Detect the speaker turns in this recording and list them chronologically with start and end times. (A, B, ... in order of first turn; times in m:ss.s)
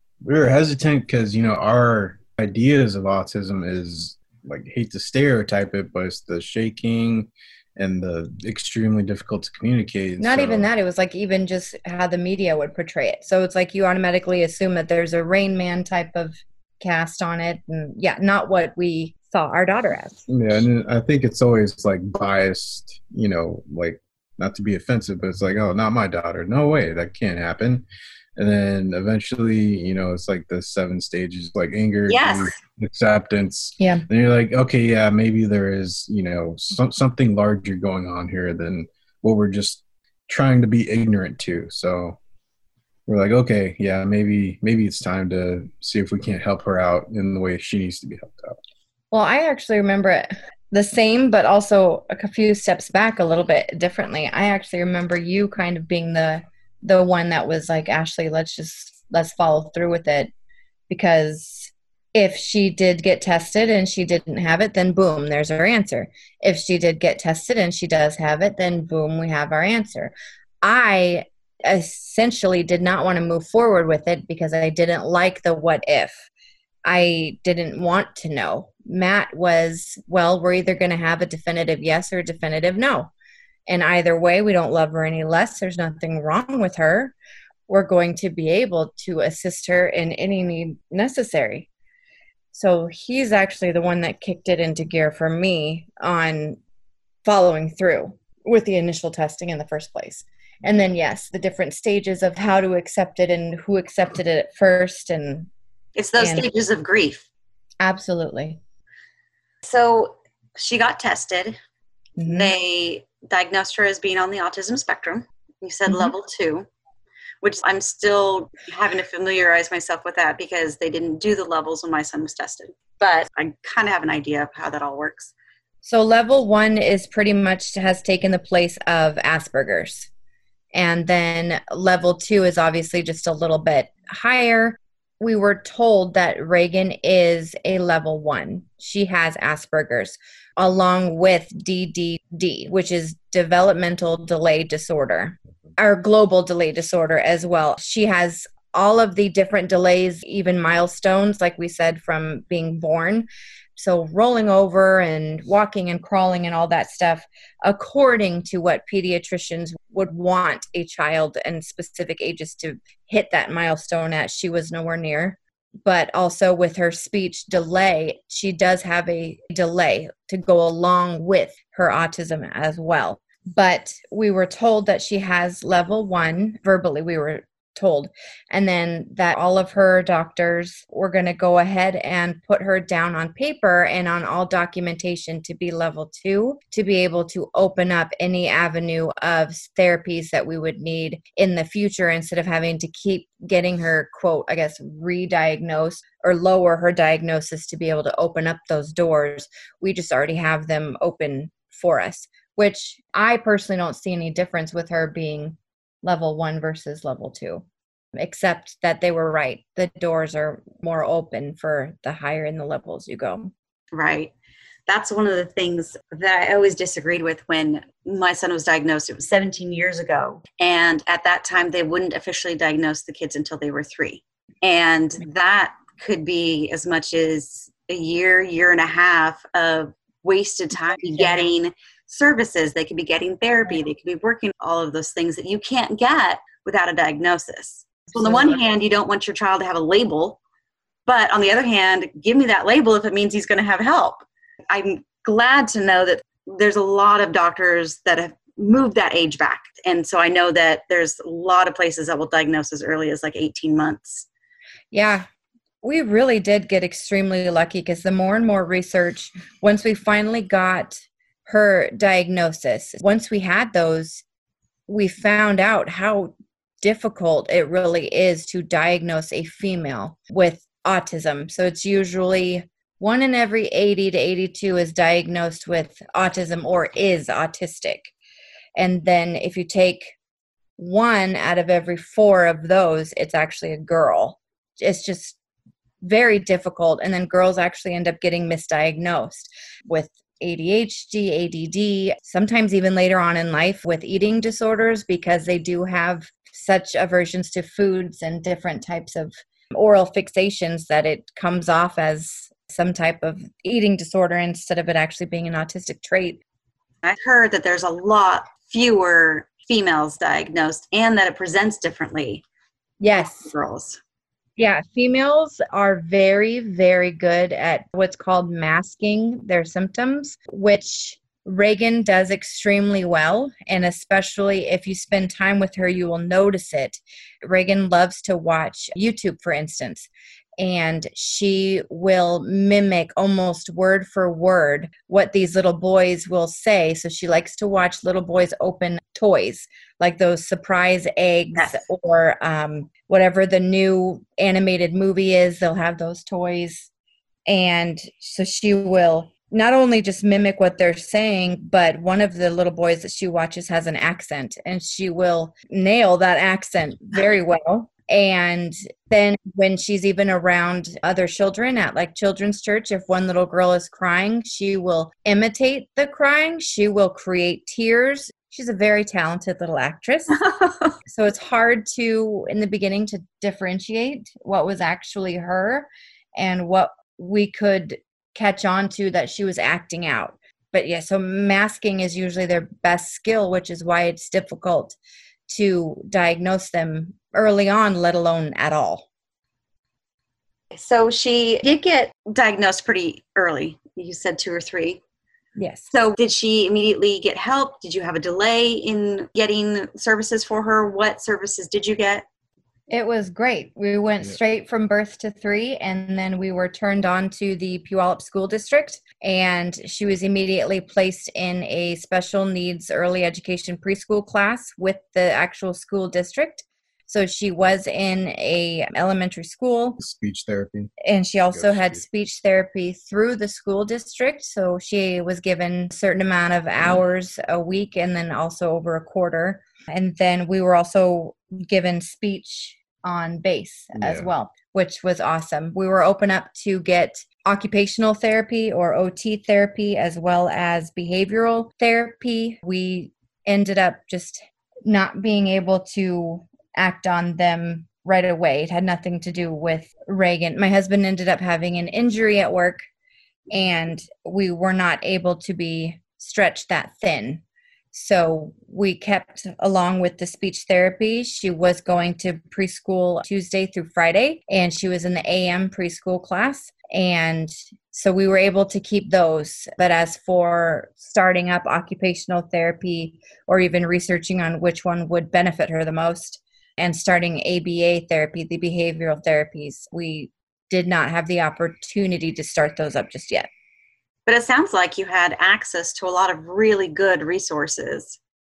0:00.2-0:10.7 A
0:10.2-0:20.3 B
0:20.3-0:27.8 A
0:28.4-0:42.2 A
0:32.1-0:32.6 C
0:33.8-0:34.0 B
0:43.1-0:48.6 A
0:49.1-1:00.3 B
1:00.9-1:16.2 B
1:16.8-1:23.1 B
1:23.7-1:27.1 B
1:27.7-1:31.7 B
1:32.5-1:36.6 B
1:37.2-1:45.5 B
1:46.0-1:47.3 C
1:46.2-1:46.5 B
1:47.8-1:48.6 B
1:49.6-1:51.6 C
1:52.2-1:52.5 B
1:52.2-1:56.7 C
1:55.9-1:56.1 B
1:57.4-2:05.3 C
2:05.8-2:10.1 B
2:10.7-3:27.6 B
3:28.1-3:33.5 B
3:33.9-3:34.3 C
3:34.9-4:00.4 C
3:51.0-3:51.4 B
3:58.1-3:58.5 B
4:01.0-4:14.3 C
4:14.9-4:15.2 B
4:15.8-4:24.2 B
4:24.9-4:38.1 B
4:38.8-4:40.1 B
4:40.8-4:45.4 B
4:46.0-5:06.4 B
5:07.0-5:12.4 C
5:13.0-5:13.5 B
5:13.4-5:14.0 C
5:14.6-5:46.9 B
5:47.4-6:10.4 B
6:10.4-6:10.9 C
6:11.0-6:25.0 B
6:25.5-6:29.1 B
6:30.7-6:35.0 C
6:35.6-6:35.9 B
6:35.9-6:42.2 C
6:42.9-7:00.0 B
7:00.0-7:00.9 A
7:01.0-7:32.8 B
7:01.5-7:02.0 A
7:13.9-7:14.3 A
7:33.5-7:37.4 B
7:37.9-8:03.5 B
8:04.3-8:08.2 C